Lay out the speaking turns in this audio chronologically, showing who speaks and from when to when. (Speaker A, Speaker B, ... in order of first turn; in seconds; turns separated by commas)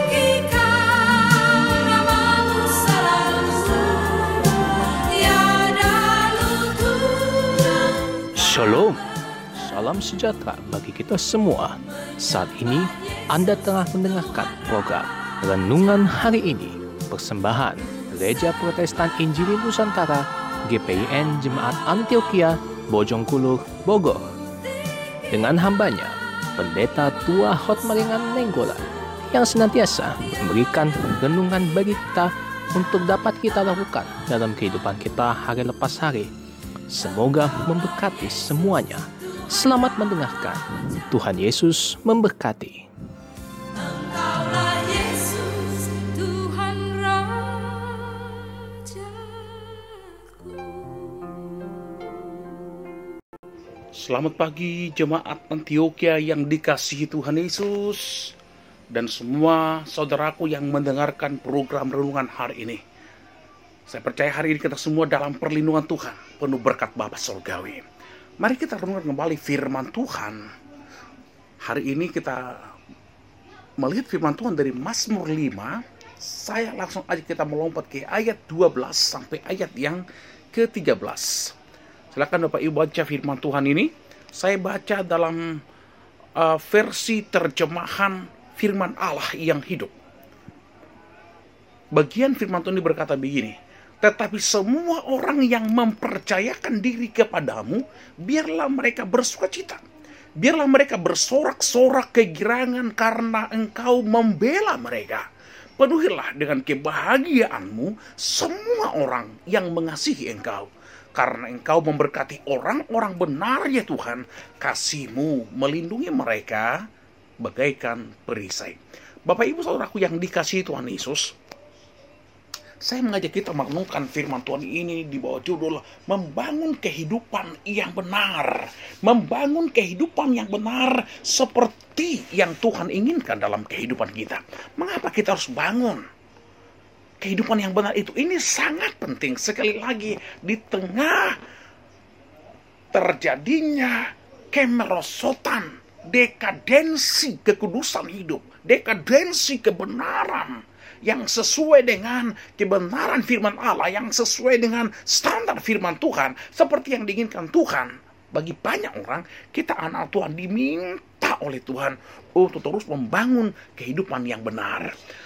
Speaker A: 0.1-1.9, Speaker B: 2.0-5.9, Speaker A: 6.0-24.3, Speaker A: 25.3-36.3, Speaker A: 36.9-42.9, Speaker B: 44.1-47.4, Speaker A: 47.4-48.8, Speaker B: 48.9-49.2, Speaker A: 49.3-50.1, Speaker B: 50.4-50.8, Speaker C: 53.9-58.3, Speaker C: 58.9-62.8, Speaker C: 63.9-67.8, Speaker C: 68.4-70.5, Speaker C: 71.6-72.7, Speaker C: 73.8-81.5, Speaker C: 82.1-85.6, Speaker C: 86.4-89.9, Speaker C: 91.9-99.8, Speaker C: 100.4-105.2, Speaker C: 105.8-116.8, Speaker C: 117.4-121.3, Speaker C: 122.8-136.0, Speaker C: 137.2-141.4, Speaker C: 142.9-164.9